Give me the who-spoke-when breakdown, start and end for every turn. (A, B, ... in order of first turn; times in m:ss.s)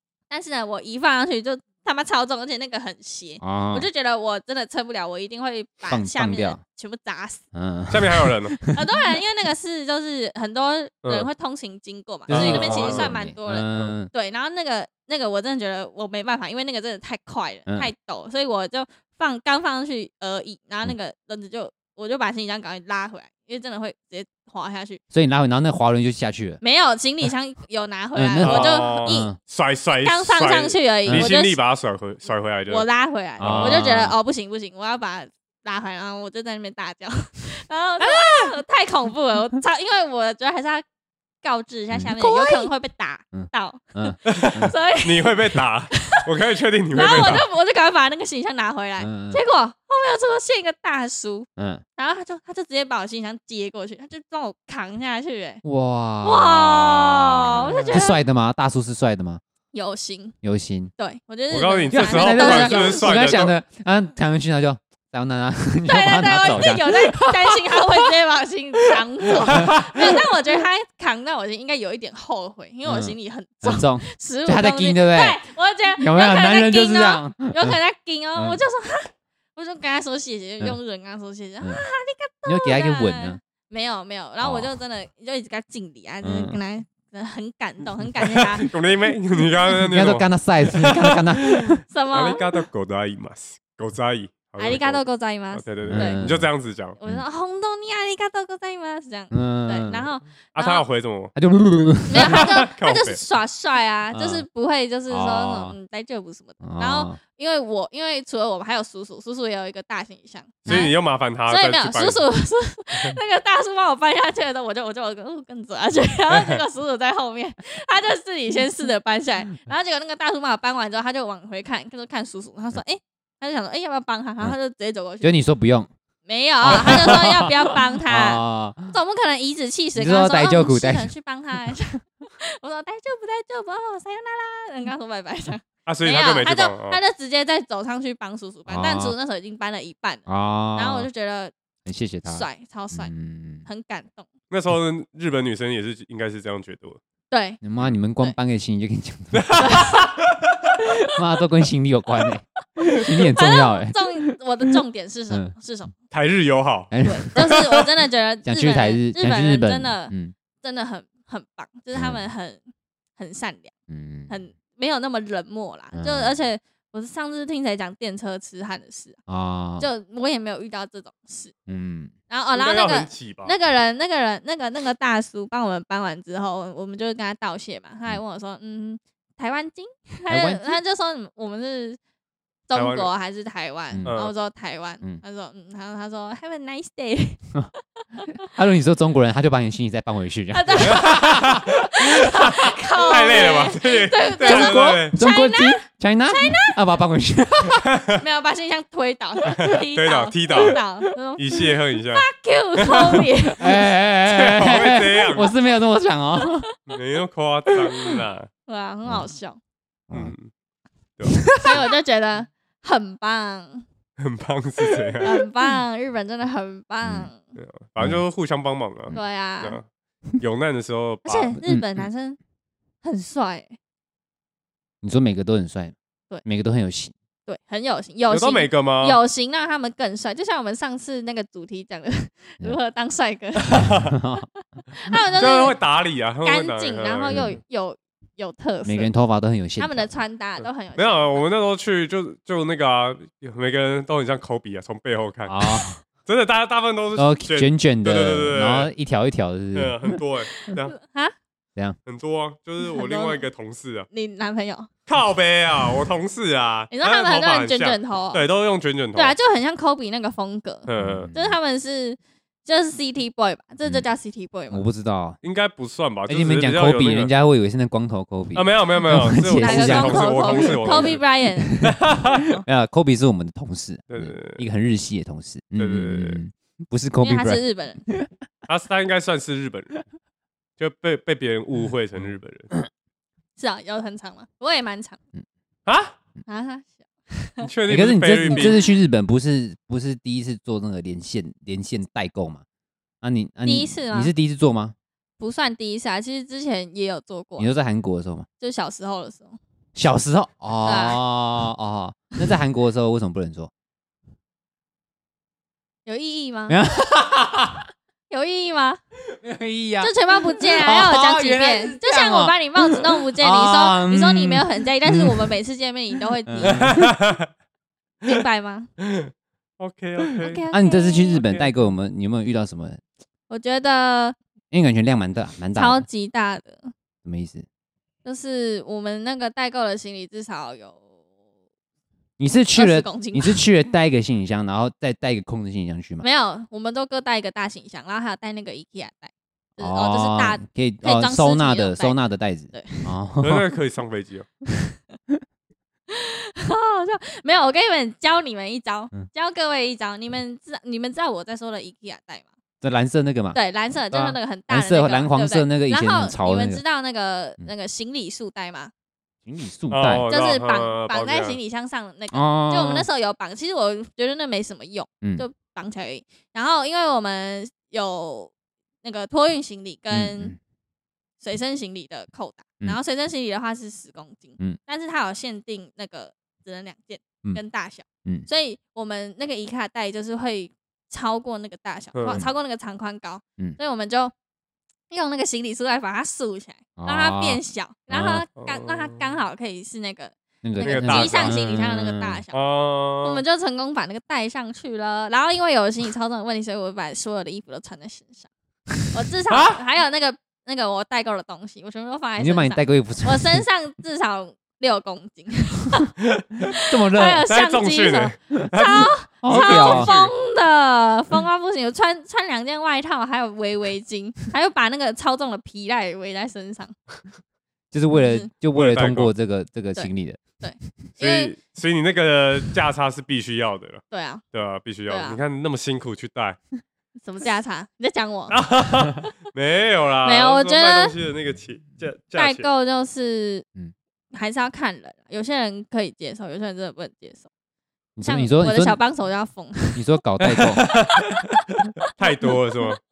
0:00.3-0:07.4 A
0:03.4-0:03.9 B
0:05.9-0:06.6 B
0:07.5-0:08.8 B
0:07.9-0:08.6 C
0:08.7-0:25.0 A
0:12.3-0:13.1 C
0:12.3-0:14.1 B
0:25.1-0:26.6 B
0:26.6-0:29.3 A
0:28.1-0:29.4 B
0:28.4-0:32.8 C
0:30.0-0:31.6 A
0:31.0-0:31.3 B
0:32.7-0:40.8 A
0:33.4-0:33.8 C
0:33.4-0:34.2 B
0:38.0-0:38.4 B
0:41.4-0:45.4 A
0:41.9-0:42.7 B
0:43.3-0:44.7 B
0:44.3-0:47.4 C
0:45.9-0:46.2 A
0:46.9-0:55.6 A
0:49.0-0:49.4 B
0:51.6-0:51.8 B
0:55.6-0:59.4 B
0:56.2-0:58.2 A
0:59.7-1:00.4 A
1:00.4-1:00.9 B
1:01.0-1:03.5 A
1:01.5-1:03.5 C
1:01.9-1:07.8 B
1:05.8-1:28.7 A
1:09.5-1:10.0 B
1:12.8-1:15.4 B
1:16.0-1:17.8 B
1:22.4-1:23.4 B
1:24.4-1:24.7 B
1:26.2-1:26.6 B
1:28.2-1:28.6 B
1:28.6-1:37.0 C
1:29.8-1:31.8 B
1:31.9-1:32.4 A
1:34.6-1:36.2 A
1:35.8-1:36.5 B
1:37.0-1:40.8 A
1:39.3-1:40.1 B
1:40.5-1:41.3 C
1:41.4-1:42.4 B
1:42.1-1:50.9 A
1:42.2-1:43.2 C
1:44.1-1:44.4 B
1:45.1-1:45.8 B
1:46.6-1:47.2 B
1:50.7-1:52.2 C
1:51.5-2:05.4 A
1:56.3-1:56.6 C
2:05.2-2:05.9 B
2:06.2-2:21.5 A
2:06.6-2:08.9 B
2:10.0-2:11.1 B
2:15.8-2:17.0 C
2:18.7-2:19.1 B
2:20.3-2:21.1 B
2:21.8-2:23.6 B
2:22.2-2:23.1 A
2:23.6-2:24.3 A
2:24.5-2:27.0 C
2:27.3-2:27.6 A
2:27.6-2:29.8 B
2:29.3-2:30.3 C
2:29.6-2:30.1 A
2:31.1-2:34.3 B
2:33.3-2:35.9 A
2:36.1-2:37.8 C
2:36.9-2:37.3 B
2:37.0-2:42.6 A
2:38.4-2:40.3 B
2:41.9-2:42.2 B
2:43.2-2:43.7 A
2:43.9-2:44.3 B
2:44.3-2:49.2 A
2:45.9-2:46.3 B
2:49.3-2:49.8 B
2:49.8-2:51.5 A
2:51.7-2:52.1 B
2:52.3-3:02.0 A
2:52.5-2:53.5 C
3:00.3-3:00.8 B
3:02.7-3:07.4 A
3:02.7-3:03.1 C
3:04.0-3:04.3 C
3:08.4-3:11.6 B
3:10.5-3:16.7 A
3:10.9-3:11.6 C
3:13.0-3:15.1 C
3:14.4-3:17.9 B
3:18.2-3:23.7 A
3:19.6-3:20.8 C
3:21.4-3:22.2 C
3:22.8-3:23.2 C
3:23.6-3:26.7 B
3:24.2-3:25.5 C
3:26.9-3:28.5 C
3:28.6-3:29.6 A
3:29.0-3:29.3 B
3:30.1-3:30.5 C
3:31.2-3:31.4 C
3:31.4-3:31.8 B
3:31.6-3:33.8 A
3:34.2-3:35.3 C
3:35.2-3:37.4 A
3:37.0-3:37.3 B
3:37.6-3:39.8 C
3:39.1-3:39.8 A
3:40.4-3:41.6 C
3:41.2-3:42.4 A
3:41.6-3:42.0 B
3:43.0-3:43.8 A
3:45.0-3:47.1 B
3:47.4-3:53.9 A
3:48.3-3:49.2 C
3:53.7-3:54.2 C
3:54.1-3:54.4 B
3:54.9-3:55.8 A
3:55.4-3:57.4 C
3:56.4-3:59.1 A
3:57.3-3:57.6 B
3:58.8-4:00.2 B
3:59.8-4:01.4 A
4:00.6-4:05.7 C
4:05.4-4:05.9 B
4:06.2-4:08.9 C
4:07.2-4:10.2 B
4:09.7-4:11.0 C
4:10.6-4:11.3 A
4:12.1-4:14.1 C
4:12.9-4:13.4 A
4:14.1-4:14.9 A
4:15.1-4:19.4 C
4:16.9-4:18.4 A
4:19.1-4:24.8 A
4:20.9-4:21.3 C
4:21.0-4:21.6 B
4:23.8-4:24.1 B
4:24.7-4:25.4 B
4:25.4-4:27.3 C
4:26.3-4:32.0 B
4:28.5-4:31.2 C
4:29.6-4:31.8 A
4:31.8-4:32.5 C
4:32.6-4:38.3 B
4:34.1-4:34.6 C
4:35.8-4:36.4 C
4:37.2-4:38.0 A
4:38.7-4:40.0 C
4:40.8-4:42.7 C
4:43.6-4:45.2 A
4:45.9-4:46.1 C
4:46.4-4:47.7 A
4:47.6-4:48.8 C
4:47.9-4:52.6 B
4:48.5-4:48.9 A
4:53.2-4:54.9 B
4:53.6-4:54.3 A
4:55.4-4:57.7 A
4:57.6-4:58.4 B
4:58.6-4:59.6 A
5:00.0-5:03.7 B
5:00.8-5:01.2 A
5:06.0-5:06.8 A
5:06.7-5:07.9 B
5:08.3-5:09.0 A
5:09.3-5:15.5 B
5:10.0-5:16.9 A
5:16.4-5:17.1 B
5:16.6-5:17.5 C
5:18.2-5:18.9 A
5:19.0-5:20.6 C
5:20.4-5:21.4 A
5:20.7-5:23.0 B
5:21.3-5:21.7 C
5:23.5-5:24.4 A
5:24.7-5:26.0 B
5:25.7-5:26.9 A
5:27.2-5:27.6 B
5:28.2-5:31.0 A
5:32.4-5:36.2 B
5:32.7-5:33.6 A
5:36.2-5:43.1 A
5:39.8-5:43.6 B
5:43.4-5:44.5 C
5:46.1-5:52.5 A
5:52.8-5:53.6 B
5:53.5-5:58.9 A
5:54.2-5:56.8 B
5:59.4-6:00.2 B
5:59.9-6:01.6 C
6:00.3-6:08.5 A
6:02.3-6:03.1 B
6:09.0-6:10.5 A
6:10.1-6:10.6 B
6:11.4-6:24.3 A
6:22.1-6:22.4 C
6:25.1-6:32.6 A
6:27.0-6:28.4 B
6:28.6-6:29.3 C
6:30.6-6:32.4 B
6:30.8-6:31.6 C
6:32.5-6:33.4 C
6:33.2-6:38.5 A
6:39.1-6:46.1 A
6:39.5-6:39.8 C
6:42.4-6:43.6 B
6:46.2-6:46.6 C
6:46.7-6:56.9 A
6:46.8-6:47.5 B
6:47.5-6:50.3 C
6:49.4-6:50.1 B
6:57.9-7:00.5 B
6:58.1-6:58.5 A
6:58.7-6:59.3 C
6:59.9-7:01.5 A
7:01.2-7:06.6 C
7:04.1-7:04.4 A
7:05.1-7:05.4 A
7:07.2-7:08.6 A
7:08.5-7:12.7 C
7:10.2-7:11.1 A
7:12.4-7:13.6 A
7:14.3-7:17.5 A
7:18.2-7:19.0 B
7:18.2-7:20.0 A
7:19.9-7:20.9 B
7:20.4-7:21.6 C
7:22.1-7:22.6 A
7:22.2-7:23.0 C